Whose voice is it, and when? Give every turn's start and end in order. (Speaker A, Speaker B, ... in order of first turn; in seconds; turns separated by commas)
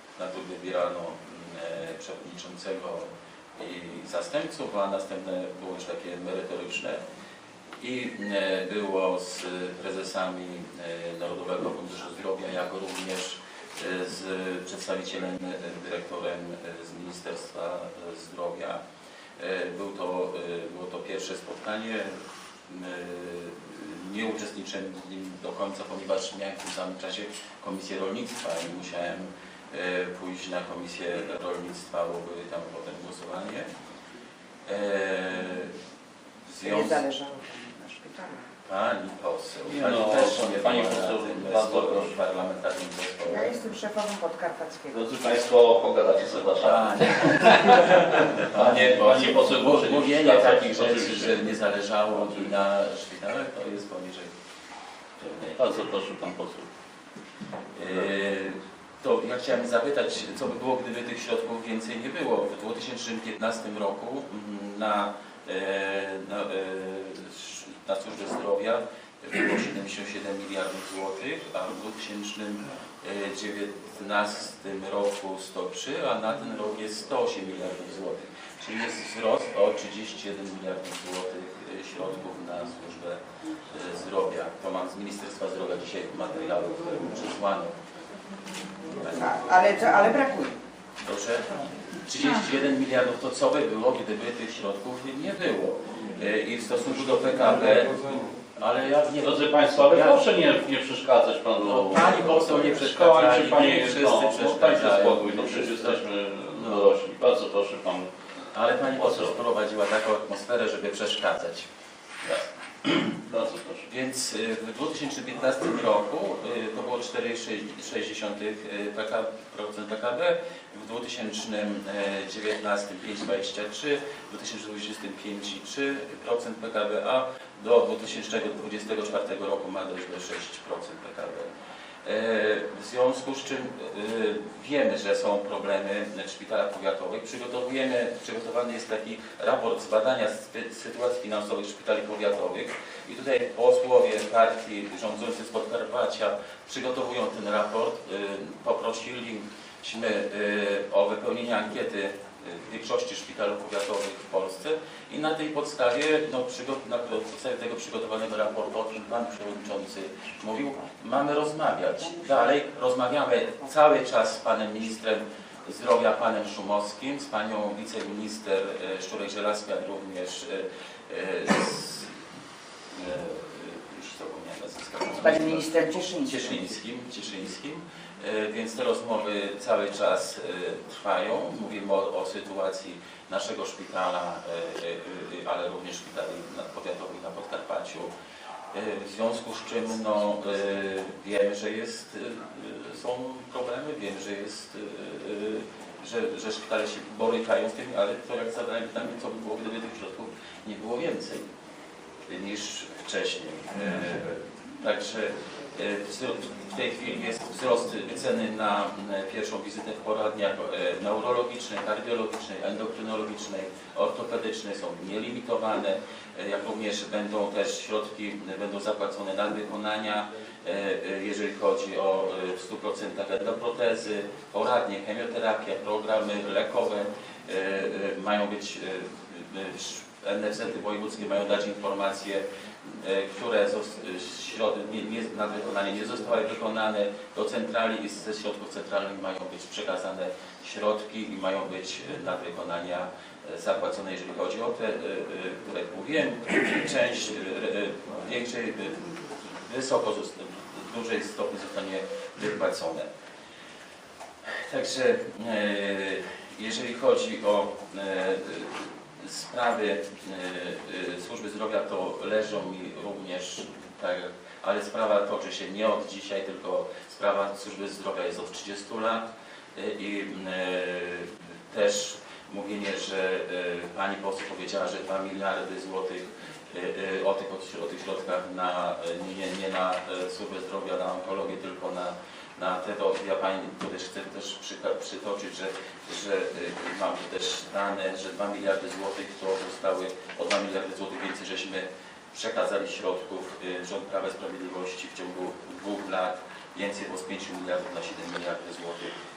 Speaker A: 0.2-7.0, Speaker A: 7.8-18.8, Speaker A: 19.4-33.7, Speaker A: 34.7-35.7, Speaker A: 36.5-37.1, Speaker B: 36.6-38.5, Speaker A: 38.6-43.6, Speaker C: 39.7-42.2, Speaker B: 43.3-45.0, Speaker C: 44.9-51.5, Speaker A: 46.5-54.3, Speaker C: 52.1-52.5, Speaker A: 55.2-55.6, Speaker C: 55.5-56.7, Speaker A: 57.8-87.8, Speaker C: 57.9-58.1, Speaker A: 88.9-89.3, Speaker B: 89.1-90.6, Speaker A: 91.0-100.2, Speaker C: 99.2-108.1, Speaker A: 101.6-106.0, Speaker A: 106.5-106.9, Speaker A: 108.5-111.7, Speaker C: 108.8-109.4, Speaker A: 112.2-113.2, Speaker C: 113.3-113.9, Speaker A: 113.8-131.5, Speaker A: 132.0-172.1, Speaker B: 162.2-162.5, Speaker A: 172.9-188.1, Speaker B: 175.2-176.6, Speaker A: 188.7-201.5, Speaker A: 202.3-253.1, Speaker A: 254.6-299.2